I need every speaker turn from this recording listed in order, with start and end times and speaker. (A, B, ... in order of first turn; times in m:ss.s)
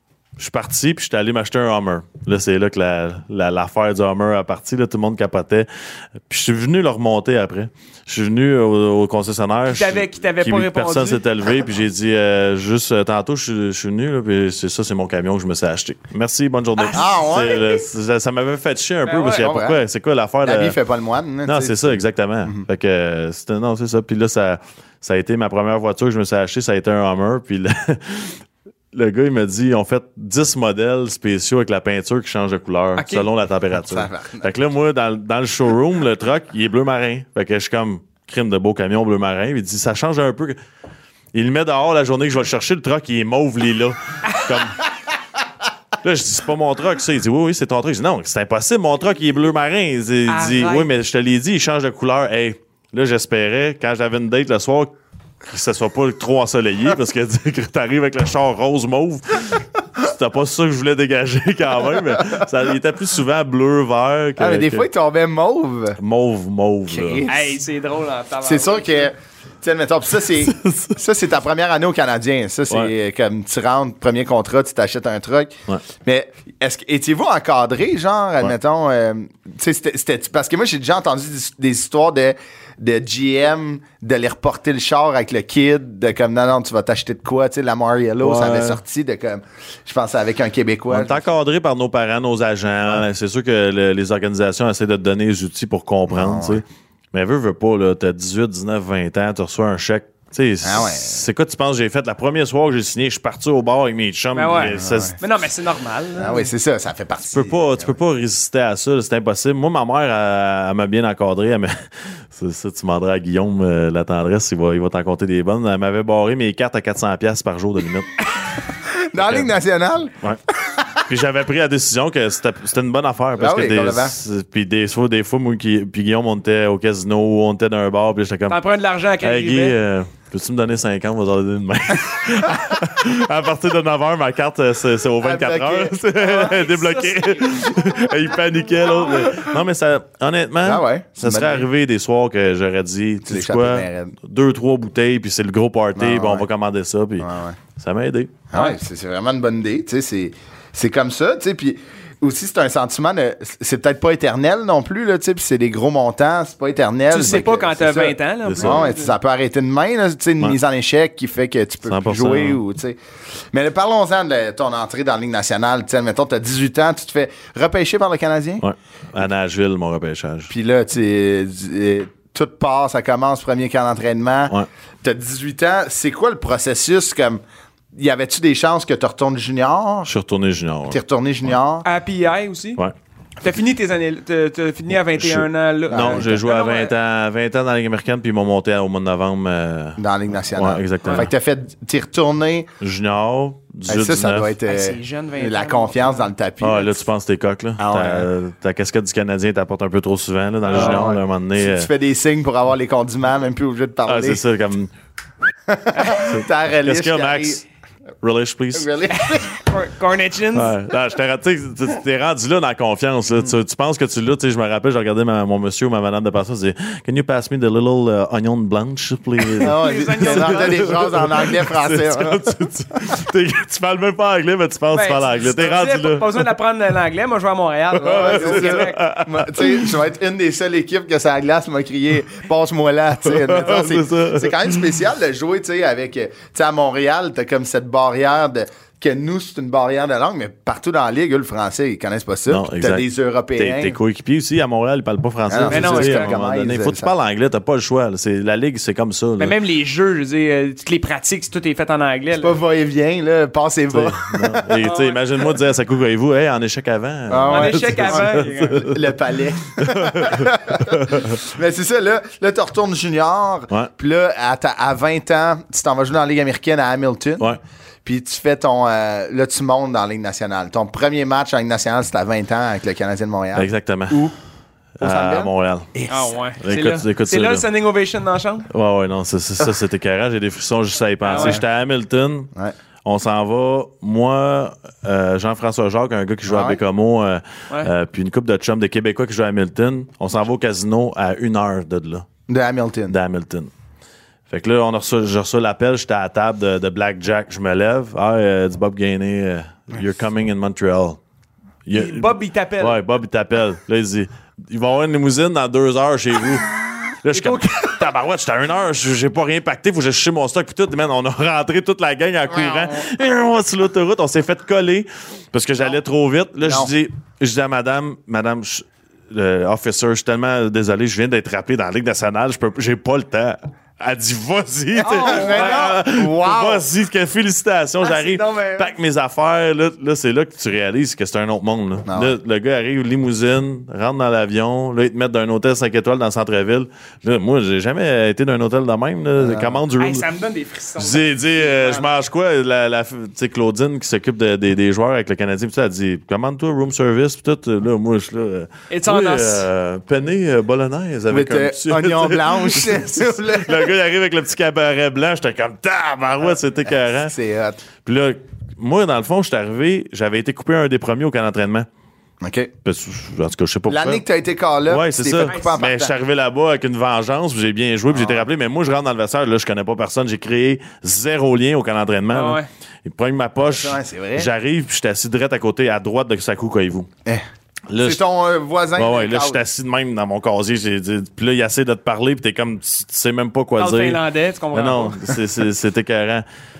0:00.4-0:05.7 A
0:06.3-0:20.8 A
0:09.7-0:11.2 B
0:16.8-0:17.0 B
0:16.9-0:17.8 C
0:19.0-0:19.5 B
0:19.4-0:19.8 C
0:20.4-0:22.6 C
0:21.4-0:28.4 A
0:28.9-0:40.6 A
0:33.0-0:33.3 B
0:33.8-0:34.5 C
0:41.3-0:44.8 A
0:46.0-0:54.9 A
0:50.3-0:50.9 B
0:55.4-1:04.9 A
1:01.9-1:02.4 C
1:04.4-1:06.0 C
1:06.0-1:07.2 A
1:06.9-1:07.6 C
1:07.3-1:09.1 B
1:08.4-1:31.2 C
1:10.4-1:11.0 A
1:28.2-1:28.8 A
1:30.9-1:45.2 A
1:36.1-1:36.6 C
1:40.6-1:41.2 C
1:44.3-1:46.5 B
1:44.5-1:45.2 C
1:46.2-1:48.0 C
1:47.3-1:58.2 A
1:58.8-2:00.1 C
1:59.2-1:59.5 A
2:01.0-2:08.6 A
2:03.4-2:04.2 C
2:08.5-2:09.8 B
2:09.2-2:28.4 A
2:15.2-2:16.0 C
2:16.2-2:17.8 B
2:20.6-2:21.7 C
2:23.2-2:24.2 C
2:26.0-2:26.4 C
2:27.2-2:27.6 C
2:28.5-2:43.0 C
2:37.1-2:39.1 B
2:38.4-2:38.9 A
2:41.8-2:42.6 A
2:43.5-2:48.6 C
2:48.6-2:50.5 A
2:50.5-2:57.4 C
2:57.9-3:00.1 C
3:00.0-3:01.0 A
3:00.9-3:01.8 C
3:01.8-3:02.8 B
3:03.4-3:06.9 B
3:05.1-3:11.3 A
3:05.9-3:06.3 C
3:10.0-3:12.7 C
3:12.8-3:14.5 A
3:13.9-3:17.0 C
3:14.6-3:16.3 B
3:16.6-3:21.9 A
3:17.8-3:18.3 C
3:20.7-3:21.1 B
3:20.7-3:24.4 C
3:24.0-3:24.9 A
3:25.7-3:27.6 C
3:25.9-3:26.2 B
3:26.2-3:27.6 A
3:28.2-3:28.9 A
3:28.7-3:29.5 C
3:29.1-3:30.7 B
3:30.5-3:46.5 A
3:39.6-3:42.5 C
3:39.6-3:40.9 B
3:44.9-3:49.0 B
3:48.0-3:49.9 A
3:48.1-4:04.0 C
3:53.2-3:55.0 A
4:02.5-4:09.6 A
4:05.5-4:07.1 C
4:05.7-4:06.4 B
4:09.4-4:12.6 B
4:12.4-4:14.6 C
4:13.9-4:19.1 A
4:14.8-4:15.5 B
4:17.3-4:34.3 C
4:17.5-4:18.9 B
4:19.8-4:21.3 A
4:33.5-4:34.3 A
4:35.0-4:35.9 A
4:35.0-4:36.3 C
4:36.1-4:38.7 B
4:36.6-4:37.6 A
4:38.7-4:42.5 A
4:41.2-4:41.6 B
4:41.3-4:41.6 C
4:43.0-4:52.3 A
4:46.4-4:46.8 C
4:52.5-4:53.1 C
4:53.1-4:53.7 A
4:54.5-5:01.2 A
5:01.8-5:40.2 A
5:01.9-5:03.0 B
5:07.3-5:07.8 B
5:16.6-5:16.9 C
5:25.0-5:26.8 C
5:25.0-5:25.9 B
5:28.0-5:28.9 C
5:32.0-5:32.4 C
5:39.4-5:39.8 C
5:40.0-5:42.0 B
5:41.0-5:57.3 A
5:48.9-5:49.6 B
5:51.3-5:53.9 C
5:57.0-5:57.8 C
5:58.0-6:01.9 A
6:02.4-6:02.7 C
6:02.8-6:04.2 A
6:03.9-6:06.1 C
6:04.9-6:17.1 A
6:05.4-6:05.8 B
6:08.1-6:08.5 C
6:12.3-6:12.7 B
6:13.6-6:14.5 C
6:17.9-6:18.2 A
6:18.0-6:19.6 C
6:19.0-6:26.4 A
6:23.8-6:25.3 B